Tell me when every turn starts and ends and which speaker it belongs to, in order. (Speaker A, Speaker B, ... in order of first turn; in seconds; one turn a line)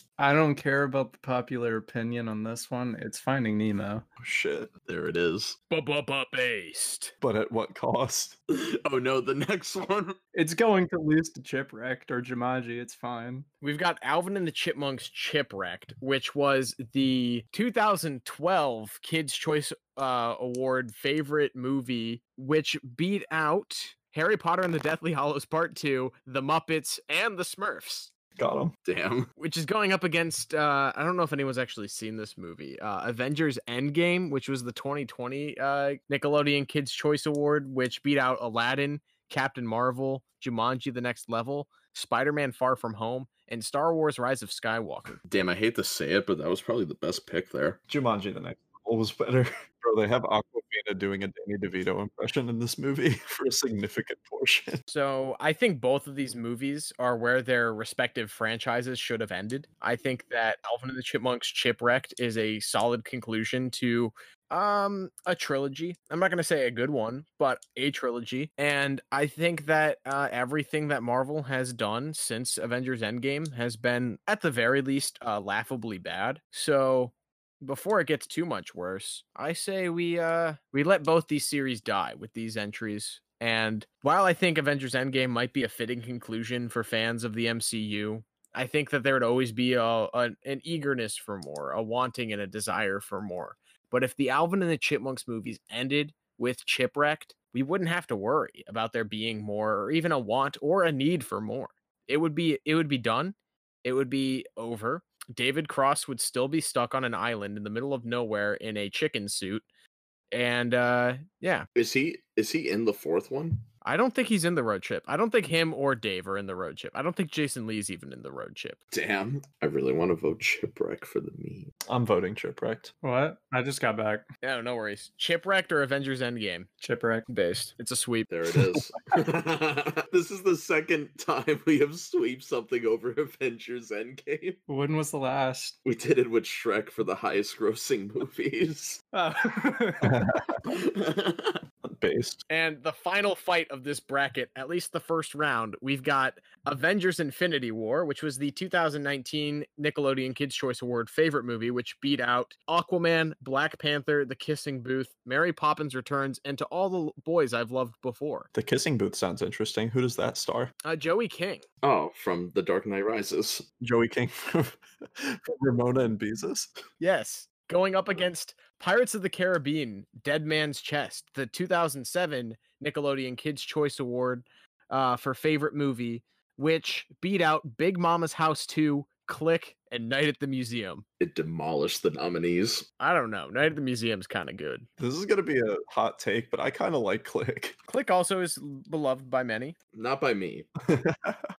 Speaker A: 0.2-4.0
Speaker B: 4.2-4.7
Speaker C: 4.9-5.5
Speaker D: 5.7-7.1
Speaker B: 7.2-8.3
Speaker C: 8.5-10.2
Speaker A: 10.3-13.5
Speaker D: 13.6-28.1
Speaker B: 28.4-28.7
Speaker C: 28.9-29.3
Speaker D: 29.4-45.2
Speaker C: 45.2-47.8
Speaker B: 47.9-54.8
Speaker D: 54.9-109.6
Speaker D: 110.3-111.7
Speaker C: 111.7-113.6
Speaker D: 113.8-118.8
Speaker C: 118.9-121.7
Speaker B: 121.9-122.9
Speaker A: 123.0-124.3
Speaker D: 124.4-126.7
Speaker A: 126.8-127.2
Speaker D: 127.3-128.3
Speaker C: 128.3-134.6
Speaker A: 134.7-135.8
Speaker C: 135.8-139.0
Speaker A: 139.1-140.2
Speaker B: 140.0-140.8
Speaker C: 140.7-141.6
Speaker B: 141.8-142.4
Speaker D: 142.5-158.5
Speaker B: 158.5-160.7
Speaker D: 160.8-161.6
Speaker C: 161.8-163.7
Speaker B: 163.8-166.7
Speaker D: 167.0-181.0
Speaker C: 181.2-182.8
Speaker D: 183.0-184.8
Speaker B: 185.0-187.8
Speaker D: 187.9-189.7
Speaker C: 189.9-190.7
Speaker B: 190.9-191.4